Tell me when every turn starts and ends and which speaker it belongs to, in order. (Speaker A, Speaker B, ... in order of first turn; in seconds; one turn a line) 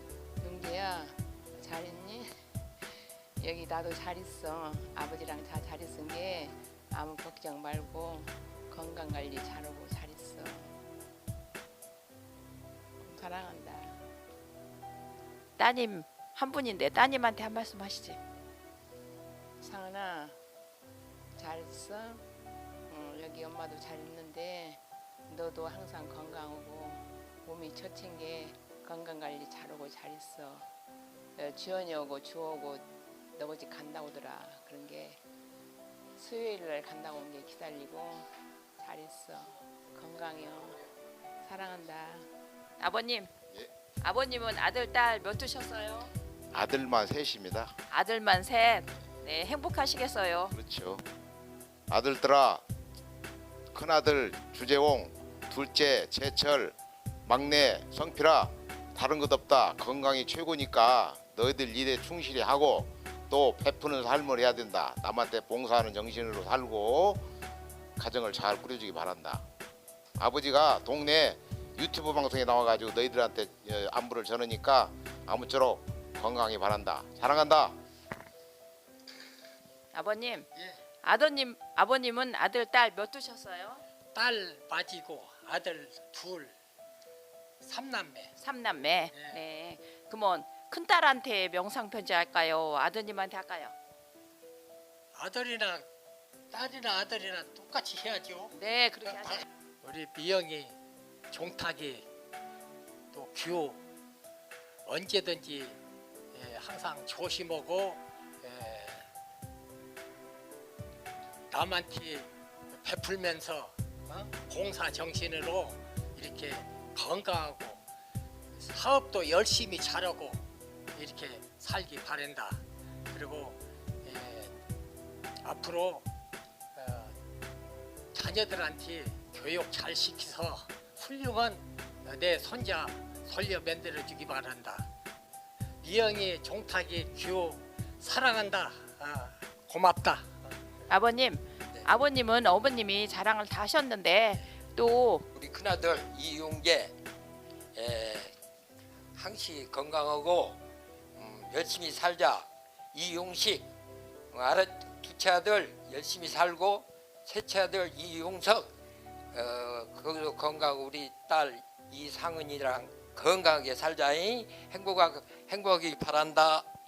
Speaker A: 0.4-10.8
Speaker A: 13.0-14.0
Speaker B: 15.6-18.2
Speaker A: 19.6-20.4
Speaker A: 21.4-22.2
Speaker A: 22.9-30.7
Speaker A: 31.4-35.2
Speaker A: 36.2-38.3
Speaker A: 38.8-40.9
Speaker A: 41.4-42.3
Speaker B: 42.8-43.3
Speaker B: 44.0-46.1
Speaker C: 46.5-47.7
Speaker B: 47.9-50.5
Speaker C: 50.5-51.0
Speaker C: 51.9-52.6
Speaker C: 53.7-56.8
Speaker C: 57.3-67.3
Speaker C: 68.0-69.4
Speaker C: 70.2-77.8
Speaker B: 79.9-80.5
Speaker B: 81.0-83.8
Speaker D: 84.1-86.5
Speaker D: 87.6-88.4
Speaker B: 88.4-93.8
Speaker D: 89.1-89.4
Speaker D: 95.1-95.9
Speaker D: 96.5-98.6
Speaker B: 98.5-99.4
Speaker D: 99.2-100.8
Speaker D: 101.3-102.1
Speaker D: 103.1-103.8
Speaker D: 104.9-105.8
Speaker D: 106.3-109.1
Speaker D: 111.5-117.8
Speaker D: 118.6-120.4
Speaker D: 120.9-124.5
Speaker D: 125.4-126.1
Speaker D: 126.8-127.2
Speaker D: 128.1-134.9
Speaker D: 135.8-140.3
Speaker B: 140.9-145.3
Speaker E: 145.3-146.9
Speaker E: 147.8-148.3
Speaker E: 149.2-150.6
Speaker E: 151.2-153.7
Speaker E: 154.3-158.7
Speaker E: 159.3-166.7